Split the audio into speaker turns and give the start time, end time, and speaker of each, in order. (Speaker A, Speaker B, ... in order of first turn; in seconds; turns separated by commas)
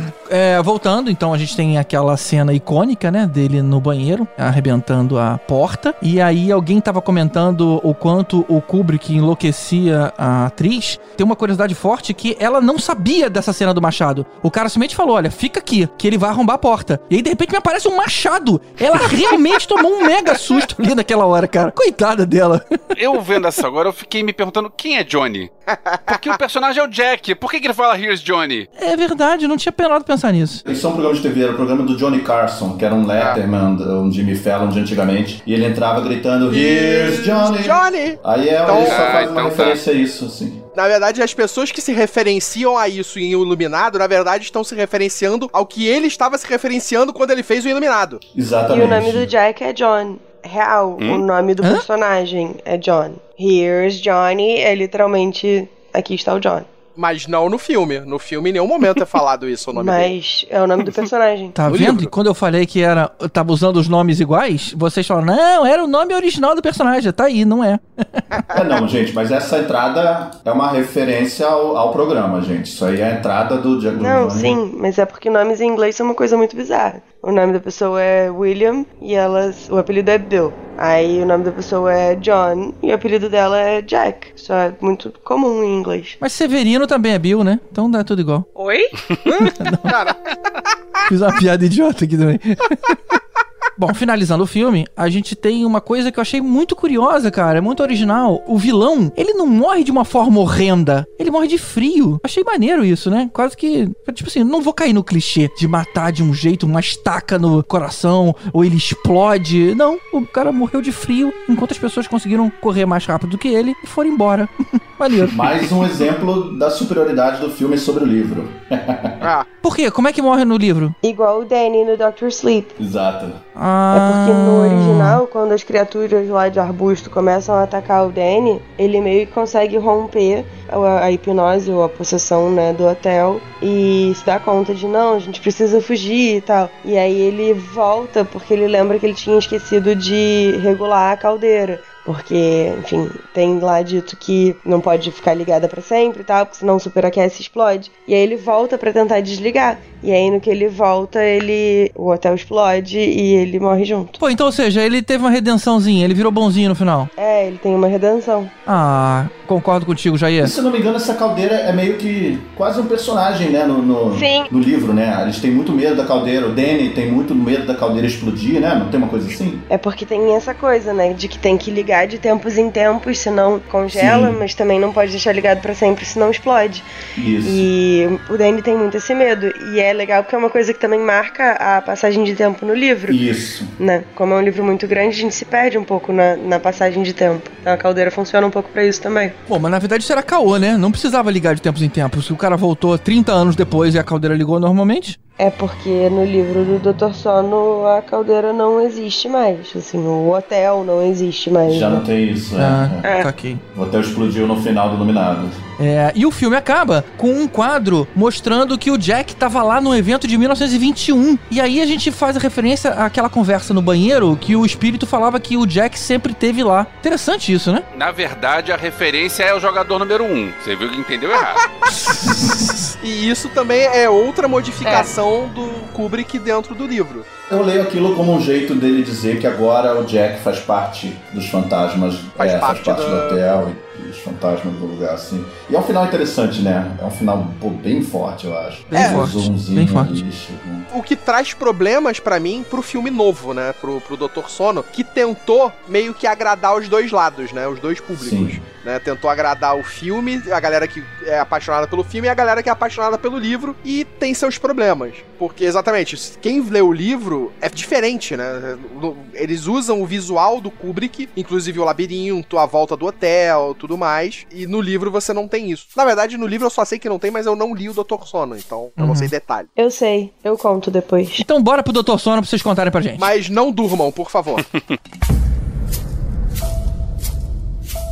Speaker A: 0.3-22.8, Speaker B: 22.9-25.5, Speaker C: 25.9-26.2, Speaker B: 26.1-28.7, Speaker A: 28.8-30.6, Speaker D: 30.6-40.6, Speaker C: 36.5-39.3, Speaker B: 38.7-39.8, Speaker C: 40.8-48.2, Speaker D: 48.3-49.3, Speaker E: 48.7-56.7, Speaker C: 57.0-60.1, Speaker E: 59.7-61.6, Speaker A: 61.6-68.2, Speaker C: 61.7-62.1, Speaker D: 68.5-74.6, Speaker E: 74.0-86.2, Speaker A: 86.2-88.5, Speaker E: 88.6-89.2, Speaker C: 89.3-90.2, Speaker A: 89.4-89.9, Speaker A: 91.1-93.2, Speaker A: 93.8-115.5, Speaker D: 115.1-119.3, Speaker C: 119.2-119.5, Speaker A: 119.6-121.0, Speaker E: 121.0-122.7, Speaker D: 122.8-123.4, Speaker A: 123.6-125.2, Speaker E: 123.9-154.2, Speaker A: 154.2-157.1, Speaker E: 157.2-158.5, Speaker A: 158.7-160.5, Speaker D: 160.4-169.6, Speaker E: 164.1-164.5, Speaker E: 169.7-176.9, Speaker D: 173.9-174.4, Speaker D: 177.2-177.7, Speaker E: 177.4-183.2, Speaker D: 183.1-183.8, Speaker E: 183.8-189.4, Speaker A: 189.5-195.2, Speaker E: 195.4-202.1, Speaker D: 201.7-203.1, Speaker A: 202.6-203.6, Speaker D: 203.7-205.6, Speaker A: 205.8-217.8, Speaker B: 217.9-221.7, Speaker C: 223.0-227.3, Speaker E: 224.8-225.1, Speaker D: 227.5-240.9, Speaker C: 232.4-233.4, Speaker A: 238.9-240.2, Speaker C: 238.9-239.2, Speaker C: 240.9-269.7, Speaker D: 248.2-248.6, Speaker A: 269.0-269.3, Speaker E: 269.8-271.5, Speaker A: 271.4-273.3, Speaker C: 273.2-274.6